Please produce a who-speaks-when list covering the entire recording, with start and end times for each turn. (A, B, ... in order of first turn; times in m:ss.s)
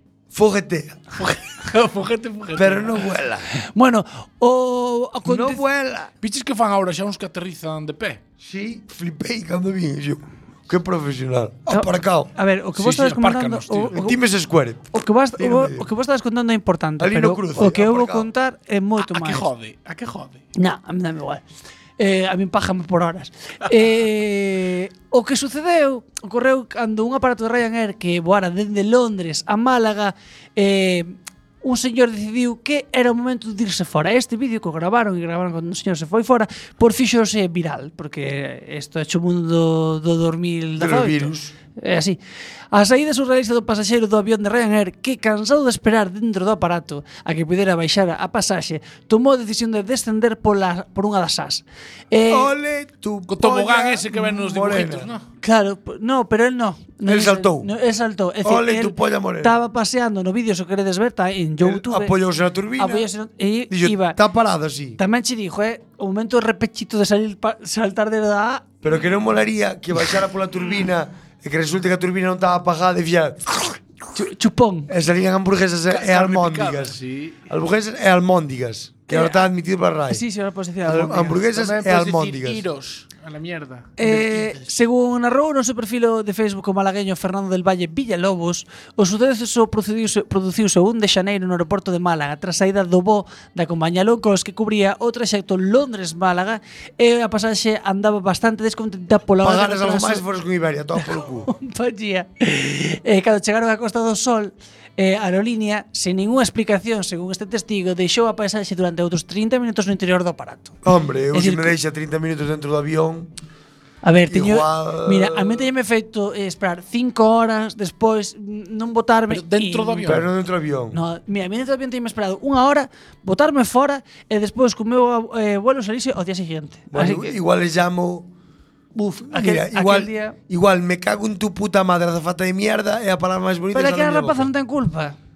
0:00.3-0:01.0 A
0:01.2-0:03.0 B
0:02.6-0:03.5 A
0:03.7-0:05.6 C
0:05.2-0:06.1 A
0:06.2-0:08.2 B
0:08.4-0:12.3 A
0:11.7-0:14.2 C
0:12.8-0:14.0 B
0:13.9-0:15.8 A
0:14.9-0:19.4 C
0:17.0-0:18.3 A
0:19.0-0:20.4 B
0:20.6-0:21.4 C
0:22.0-0:42.2 C
0:40.8-0:41.5 A
0:42.7-0:52.5 C
0:52.3-0:55.1 A
0:53.3-0:55.2 B
0:55.4-1:02.1 C
0:57.0-0:57.7 A
0:58.4-0:59.5 A
1:01.6-1:03.1 A
1:02.8-1:04.2 C
1:03.7-1:05.0 A
1:05.0-1:08.6 C
1:08.8-1:13.6 A
1:14.1-1:14.9 C
1:14.9-1:17.0 A
1:15.9-1:17.4 B
1:17.5-1:20.2 A
1:19.1-1:19.5 C
1:20.1-1:21.5 C
1:20.8-1:22.6 A
1:21.4-1:24.7 B
1:24.0-1:40.2 C
1:39.4-1:41.5 A
1:41.5-1:50.8 C
1:50.8-1:53.3 A
1:51.3-1:51.7 C
1:54.0-2:00.1 C
1:54.3-1:55.7 A
1:59.3-2:00.3 B
2:00.1-2:01.0 A
2:00.9-2:07.4 C
2:06.9-2:08.3 A
2:08.9-2:10.4 C
2:09.2-2:14.5 A
2:13.7-2:15.2 C